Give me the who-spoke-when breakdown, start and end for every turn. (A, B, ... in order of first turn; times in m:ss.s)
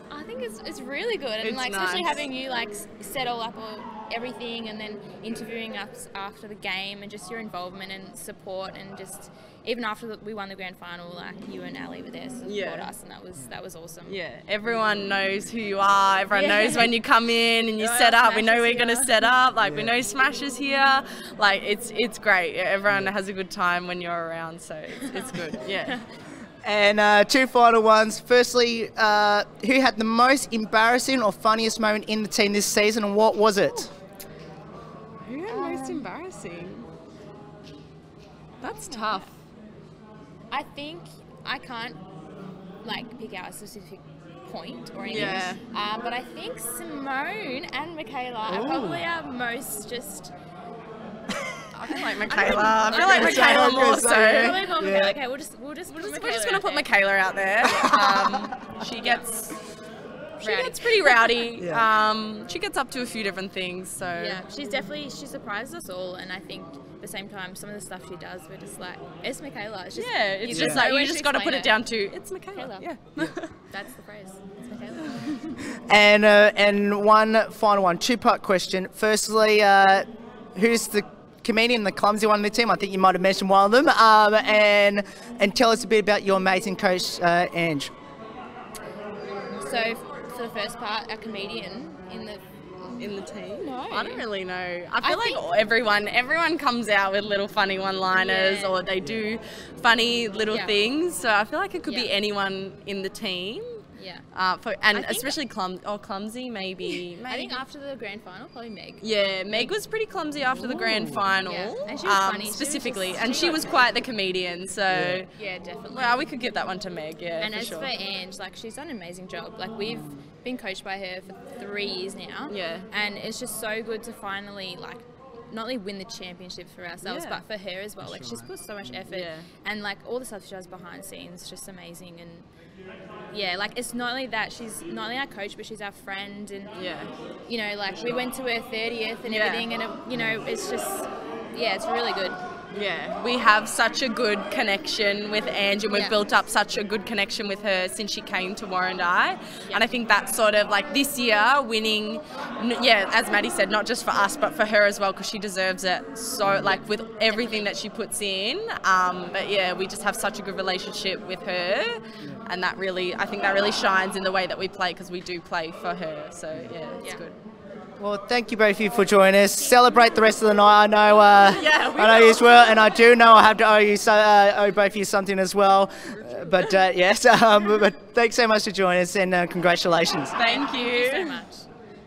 0:00.1-0:14.2 A
0:01.4-0:02.2 B
0:12.4-0:12.9 B
0:14.1-0:26.0 B
0:16.3-0:16.9 A
0:17.8-0:19.2 A
0:19.6-0:19.9 C
0:25.0-0:26.0 A
0:26.6-0:33.9 C
0:35.2-0:36.9 B
0:35.5-0:36.1 A
0:38.6-0:39.3 B
0:38.6-0:39.3 A
0:40.5-0:42.0 A
0:42.8-0:50.3 A
0:45.1-0:45.6 B
0:48.5-0:49.0 C
0:51.7-0:55.1 B
0:51.9-0:56.9 A
0:52.4-0:55.2 C
0:55.9-0:59.6 B
0:57.6-0:58.0 A
0:57.6-0:58.5 C
0:59.0-0:59.2 A
1:00.4-1:04.4 B
1:00.4-1:01.3 A
1:01.6-1:01.8 C
1:04.1-1:11.8 A
1:09.9-1:13.5 B
1:10.5-1:10.8 C
1:12.5-1:12.9 A
1:13.7-1:15.5 A
1:15.7-1:27.9 C
1:29.5-1:34.3 A
1:33.0-1:47.6 B
1:35.0-1:35.4 A
1:38.1-1:38.8 A
1:40.5-1:40.8 A
1:41.9-1:42.1 A
1:43.9-1:44.3 A
1:44.9-1:45.4 A
1:47.3-1:49.7 A
1:49.0-1:55.3 B
1:50.8-1:51.2 C
1:51.4-1:54.0 A
1:54.9-1:55.2 C
1:55.3-1:56.3 A
1:55.9-1:57.9 B
1:57.4-2:12.5 A
2:02.5-2:02.9 B
2:07.0-2:07.4 B
2:08.1-2:08.5 C
2:09.1-2:09.5 B
2:13.3-2:16.8 A
2:16.8-2:17.1 B
2:17.5-2:22.4 A
2:18.0-2:18.2 B
2:19.3-2:19.7 B
2:22.7-2:47.4 B
2:25.9-2:26.2 A
2:29.7-2:29.9 A
2:36.4-2:36.8 C
2:37.2-2:37.8 A
2:48.0-3:00.4 C
2:51.4-2:53.0 B
2:56.1-2:56.8 B
3:00.4-3:01.4 B
3:00.4-3:01.7 A